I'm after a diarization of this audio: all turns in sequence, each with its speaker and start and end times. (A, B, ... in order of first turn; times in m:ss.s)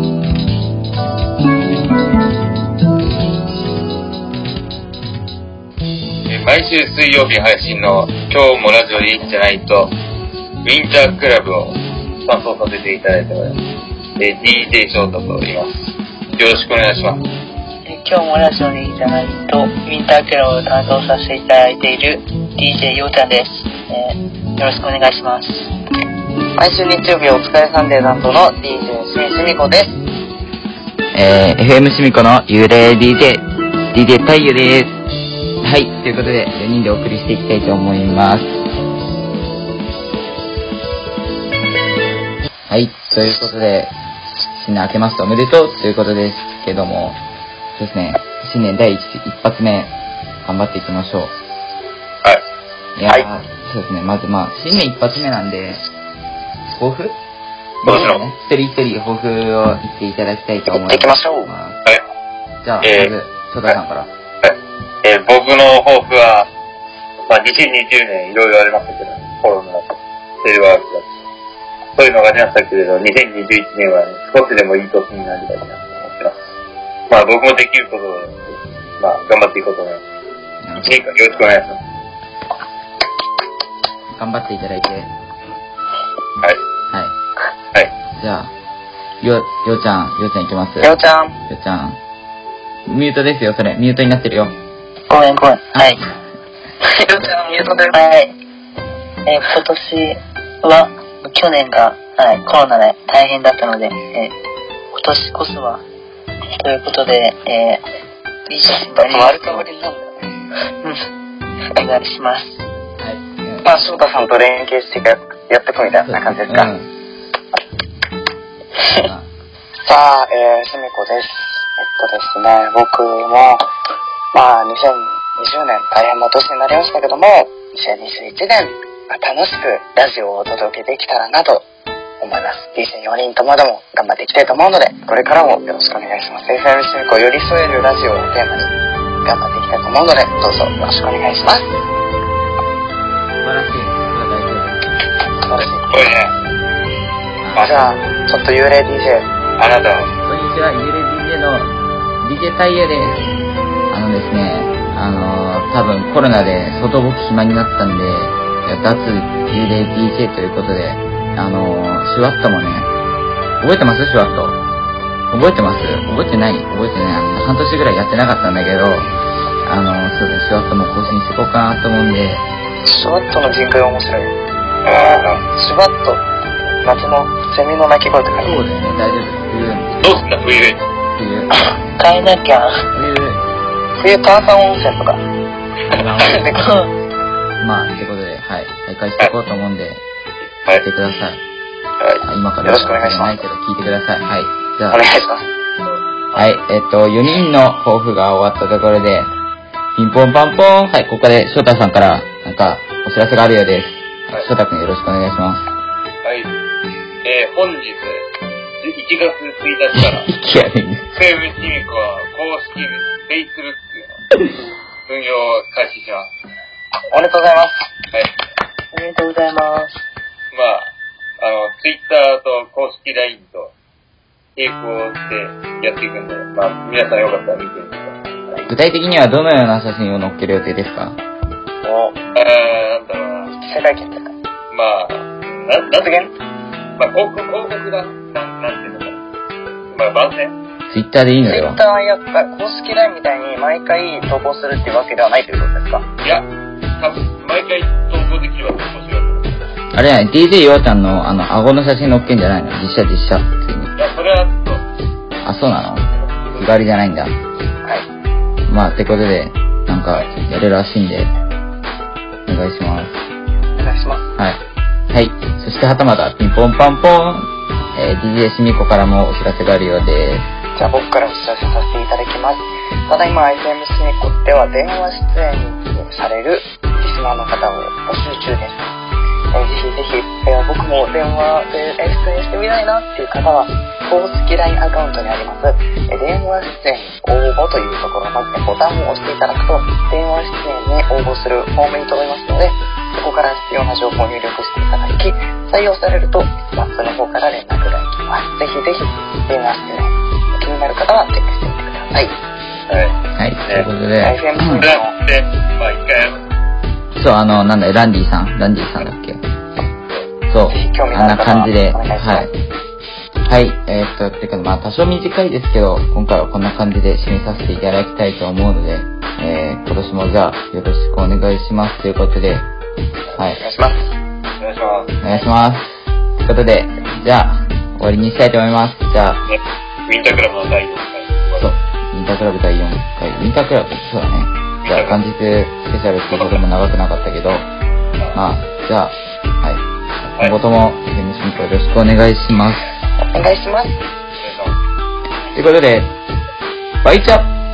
0:06.3-0:10.0 A
0:10.6-0:13.6 A
0:14.2-0:17.2 A
0:17.9-0:25.7 B
0:26.6-0:30.0 C
0:31.1-0:35.0 D
0:35.6-0:38.6 D
0:42.7-0:43.9 D
0:44.6-0:47.2 D
0:47.8-0:49.9 D
0:50.4-0:51.3 D
0:53.0-0:55.8 D
0:56.7-0:57.2 D
0:57.8-1:01.8 D
0:57.8-0:58.2 A
1:00.7-1:01.5 C
1:02.6-1:04.1 D
1:02.8-1:03.1 A
1:04.4-1:06.5 A
1:07.3-1:11.1 A
1:12.0-1:16.4 A
1:17.1-1:20.0 A
1:20.6-1:21.0 D
1:20.8-1:21.8 A
1:24.2-1:25.1 D
1:28.2-1:28.5 D
1:29.2-1:31.0 D
1:30.8-1:31.4 C
1:31.5-1:32.0 D
1:32.9-1:34.6 D
1:35.1-1:36.0 B
1:36.8-1:38.0 C
1:37.9-1:38.4 B
1:39.3-1:44.3 B
1:44.9-1:45.8 B
1:46.6-1:47.8 B
1:48.5-1:49.6 B
1:49.0-1:50.3 C
1:51.7-1:52.6 B
1:53.0-1:53.6 D
1:53.6-1:56.7 C
1:56.0-1:56.9 D
1:58.9-1:59.3 D
1:59.8-2:03.6 C
2:04.3-2:11.6 C
2:12.2-2:21.7 C
2:23.4-2:24.9 D
2:25.5-2:25.9 C
2:25.9-2:26.3 A
2:27.4-2:27.7 D
2:27.6-2:27.8 A
2:27.6-2:29.3 C
2:29.6-2:30.1 A
2:30.2-2:33.2 D
2:33.9-2:42.9 D
2:43.6-2:44.6 D
2:45.3-2:49.1 D
2:49.7-2:52.5 D
2:52.8-2:54.4 C
2:54.9-2:55.3 A
2:54.9-2:56.2 C
2:56.8-2:58.6 C
2:58.4-3:00.0 D
3:00.0-3:00.8 A
3:01.2-3:01.5 D
3:02.0-3:02.8 B
3:02.9-3:03.4 D
3:04.0-3:05.2 C
3:05.9-3:06.5 D
3:06.2-3:06.7 C
3:06.6-3:06.9 B
3:07.6-3:10.0 D
3:10.7-3:11.4 D
3:12.2-3:15.0 D
3:12.6-3:13.4 C
3:14.9-3:15.5 C
3:15.8-3:16.6 A
3:16.4-3:19.3 D
3:20.0-3:25.6 D
3:26.2-3:26.5 A
3:27.2-3:28.2 A
3:28.8-3:30.3 A
3:30.0-3:31.0 D
3:31.1-3:34.2 A
3:35.1-3:36.3 A
3:37.1-3:37.8 C
3:38.9-3:39.9 B
3:40.5-3:43.7 A
3:44.6-3:48.7 A
3:48.7-3:51.2 D
3:51.8-3:52.2 C
3:52.3-3:53.5 A
3:53.6-3:54.3 C
3:54.7-3:56.3 A
3:56.0-3:56.3 C
3:57.0-3:59.2 A
3:59.9-4:00.6 A
4:00.9-4:01.8 D
4:01.5-4:06.0 C
4:06.2-4:09.6 A
4:09.9-4:14.0 D
4:14.0-4:14.8 A
4:15.4-4:17.3 D
4:16.2-4:16.7 A
4:18.7-4:21.3 D
4:22.5-4:23.2 D
4:23.8-4:24.2 C
4:25.1-4:30.5 D
4:30.8-4:38.9 C
4:39.5-5:02.4 C
5:02.9-5:03.9 A
5:03.4-5:04.9 D
5:04.2-5:05.1 C
5:04.8-5:06.6 A
5:07.2-5:09.4 D
5:10.5-5:12.5 D
5:10.7-5:12.5 C
5:13.4-5:22.7 D
5:23.6-5:24.1 C
5:24.6-5:25.2 A
5:25.2-5:29.4 D
5:29.5-5:31.7 A
5:31.6-5:37.7 D
5:34.8-5:35.2 A
5:36.3-5:36.6 A
5:38.3-5:42.8 D
5:43.2-5:44.0 C
5:44.4-5:44.8 A
5:45.5-5:46.1 D
5:47.0-5:47.5 D